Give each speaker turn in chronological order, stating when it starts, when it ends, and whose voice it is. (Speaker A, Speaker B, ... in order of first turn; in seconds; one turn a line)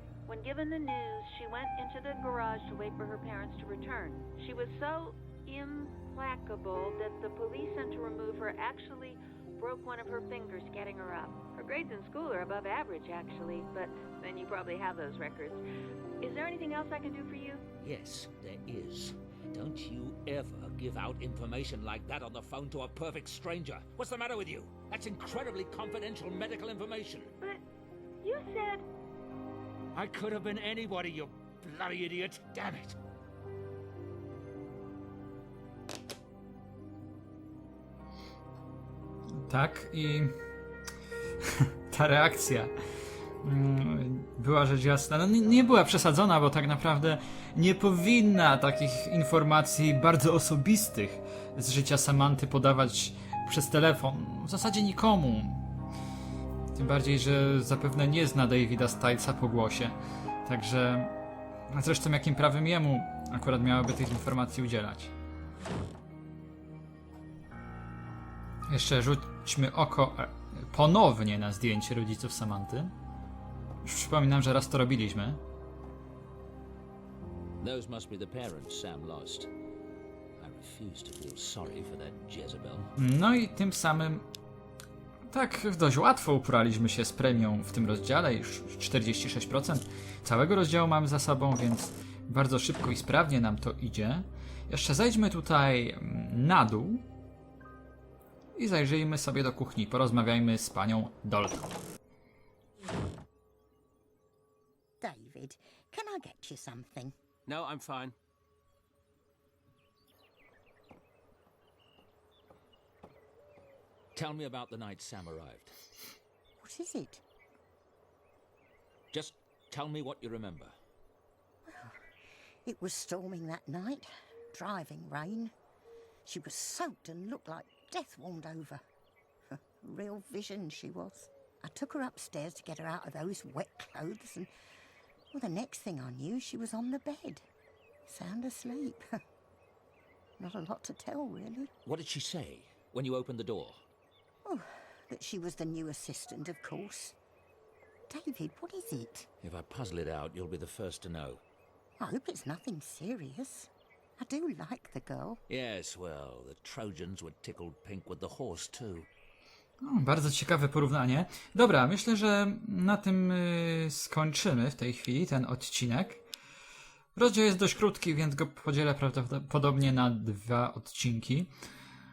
Speaker A: 0.3-15.6
Speaker A: 16.2-17.6
Speaker B: 17.8-27.3
Speaker A: 28.2-28.8
Speaker B: 29.9-33.0
Speaker C: 39.5-40.3
Speaker C: 41.9-42.7
Speaker C: 43.4-55.6
Speaker C: 56.7-61.1
Speaker C: 61.7-65.1
Speaker C: 68.7-72.9
Speaker C: 73.8-75.4
Speaker B: 77.6-79.5
Speaker B: 80.4-82.9
Speaker C: 83.0-84.2
Speaker C: 85.3-97.0
Speaker C: 98.5-101.7
Speaker D: 105.0-107.1
Speaker B: 107.5-108.1
Speaker B: 114.1-115.8
Speaker D: 116.6-117.2
Speaker B: 119.1-120.7
Speaker D: 122.6-125.5
Speaker D: 126.2-128.8
Speaker D: 129.8-134.5
Speaker D: 135.3-137.4
Speaker D: 138.1-139.0
Speaker D: 140.4-141.7
Speaker B: 141.8-143.8
Speaker D: 144.4-147.2
Speaker D: 148.1-149.3
Speaker B: 149.4-151.4
Speaker D: 152.0-155.4
Speaker B: 155.5-159.1
Speaker C: 159.8-166.2
Speaker C: 167.1-171.5